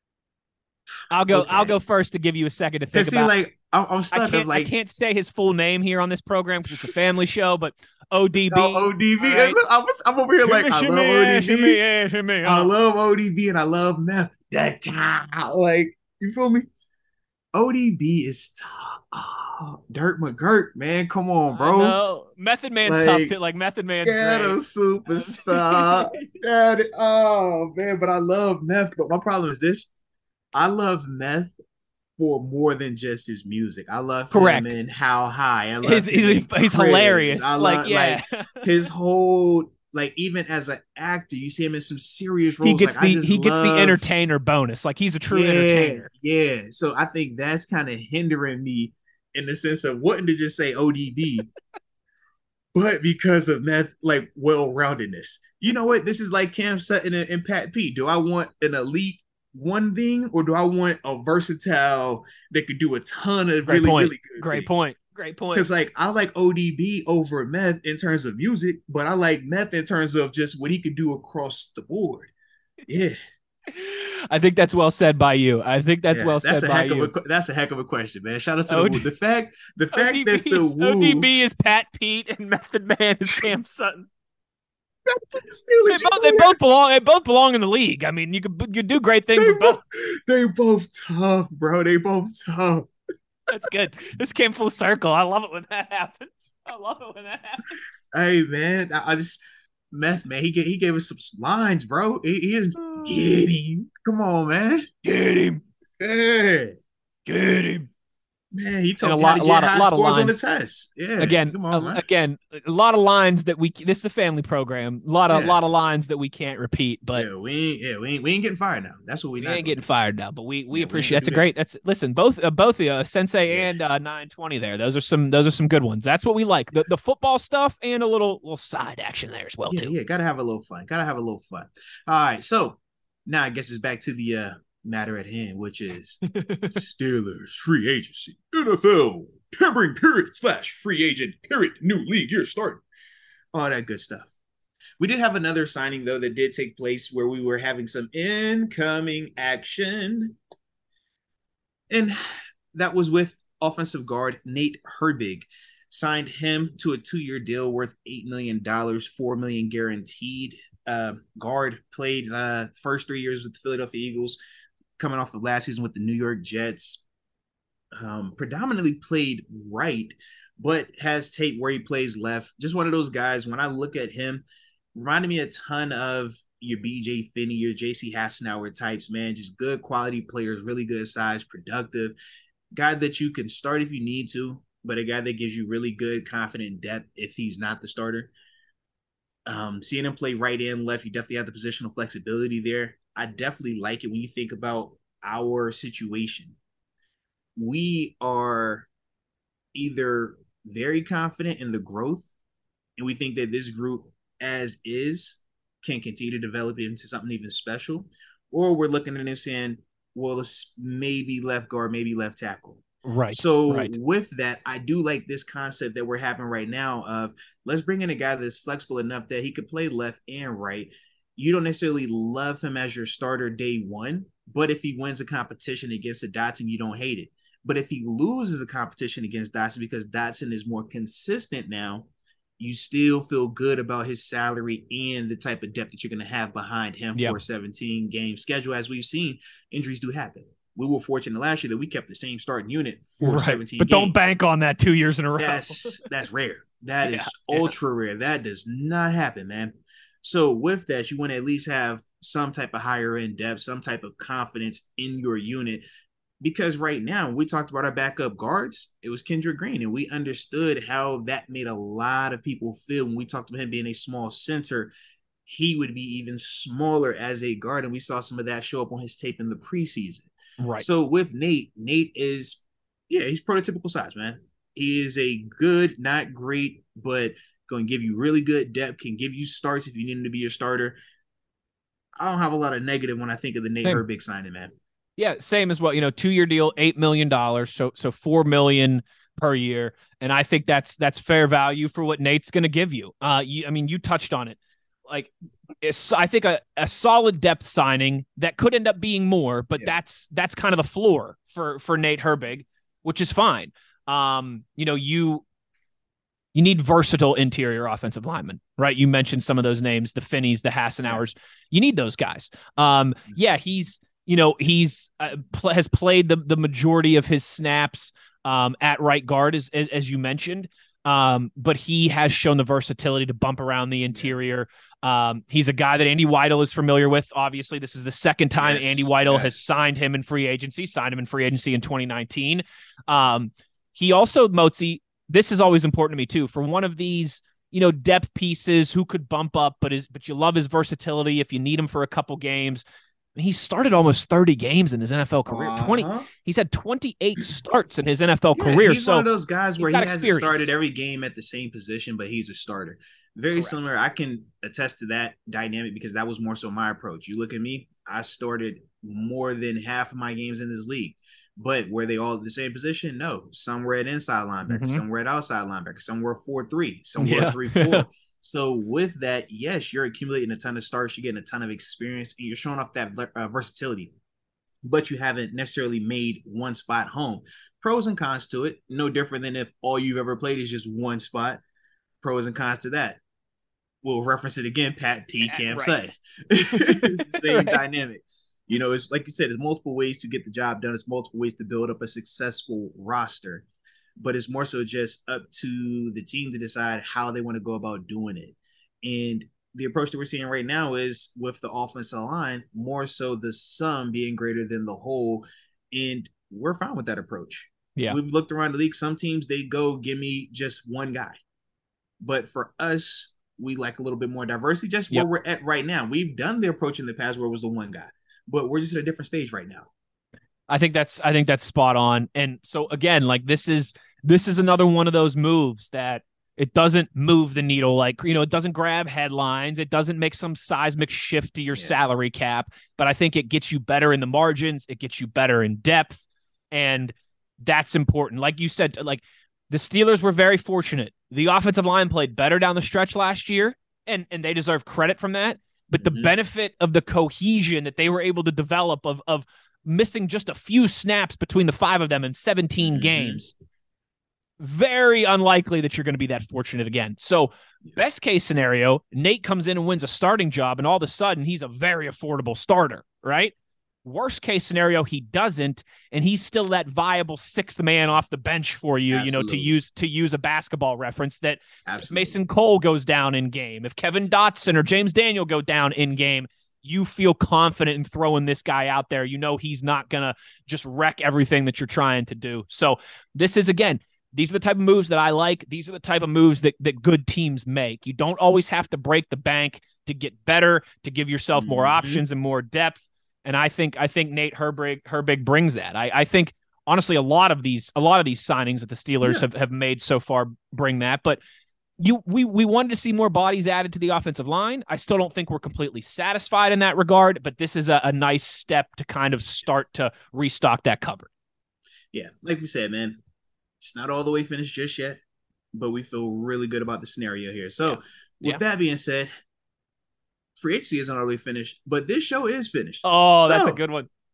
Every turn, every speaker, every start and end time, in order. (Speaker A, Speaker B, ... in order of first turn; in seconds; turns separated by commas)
Speaker A: 1.1-3.3, Speaker B: 1.3-1.8, Speaker B: 2.9-4.7, Speaker A: 4.1-9.6, Speaker B: 6.7-7.1, Speaker B: 8.4-11.8, Speaker A: 10.4-12.7, Speaker B: 12.4-16.6, Speaker B: 17.5-22.0, Speaker A: 21.5-26.3, Speaker B: 22.8-23.4, Speaker B: 24.0-29.9, Speaker B: 30.5-31.5, Speaker B: 32.2-44.0, Speaker A: 34.3-34.7, Speaker A: 35.8-38.8, Speaker A: 42.6-46.1, Speaker B: 45.3-51.5, Speaker B: 52.7-64.7, Speaker A: 63.6-65.7, Speaker B: 65.5-72.3, Speaker B: 72.9-73.2, Speaker A: 73.7-77.1, Speaker B: 76.1-81.3, Speaker A: 78.7-79.0, Speaker A: 79.9-84.1, Speaker B: 85.0-86.5, Speaker A: 85.9-89.8, Speaker B: 89.3-92.9, Speaker A: 93.5-97.8, Speaker B: 98.1-99.4, Speaker B: 99.9-104.9, Speaker A: 102.8-103.3, Speaker A: 105.0-105.6, Speaker B: 106.0-106.8, Speaker A: 107.2-107.9, Speaker B: 108.5-112.0, Speaker A: 109.0-110.4, Speaker A: 111.2-117.2, Speaker B: 115.3-115.6, Speaker B: 117.1-119.8, Speaker A: 119.4-129.9, Speaker B: 120.7-121.5, Speaker B: 123.5-123.7, Speaker B: 129.7-136.2, Speaker A: 136.3-136.8, Speaker B: 136.7-142.8, Speaker B: 143.5-144.3, Speaker B: 145.0-150.3, Speaker B: 151.9-152.2, Speaker B: 152.7-164.4, Speaker B: 165.0-167.0, Speaker B: 167.9-182.2, Speaker B: 182.7-188.3, Speaker B: 189.4-196.6, Speaker B: 197.6-198.9, Speaker B: 199.7-202.3, Speaker B: 203.0-232.1, Speaker A: 213.0-213.9, Speaker B: 232.6-244.1, Speaker A: 243.2-245.9, Speaker B: 245.4-255.8, Speaker A: 247.0-247.7, Speaker B: 256.4-264.9, Speaker B: 265.5-281.0, Speaker A: 270.6-270.8, Speaker B: 282.2-284.7, Speaker A: 285.2-305.4, Speaker A: 306.5-342.8, Speaker B: 324.1-324.4, Speaker B: 328.6-329.6, Speaker A: 343.4-349.3, Speaker B: 345.5-346.3, Speaker B: 348.5-374.1, Speaker A: 349.8-350.7, Speaker A: 364.7-365.0, Speaker A: 367.2-368.1, Speaker B: 374.8-381.6, Speaker B: 382.2-383.2, Speaker B: 384.0-393.6, Speaker A: 385.4-386.0, Speaker A: 386.6-387.8, Speaker B: 394.2-411.4, Speaker B: 412.2-419.9, Speaker A: 420.7-453.5, Speaker B: 446.0-446.3, Speaker B: 452.8-453.4, Speaker A: 454.6-463.5, Speaker A: 464.0-501.4, Speaker B: 469.1-469.8, Speaker B: 471.9-472.4, Speaker B: 491.5-492.2, Speaker A: 502.0-511.3, Speaker B: 512.1-513.2, Speaker B: 513.8-515.2, Speaker B: 515.7-519.3, Speaker A: 517.8-518.6, Speaker B: 520.6-523.8, Speaker A: 523.0-524.1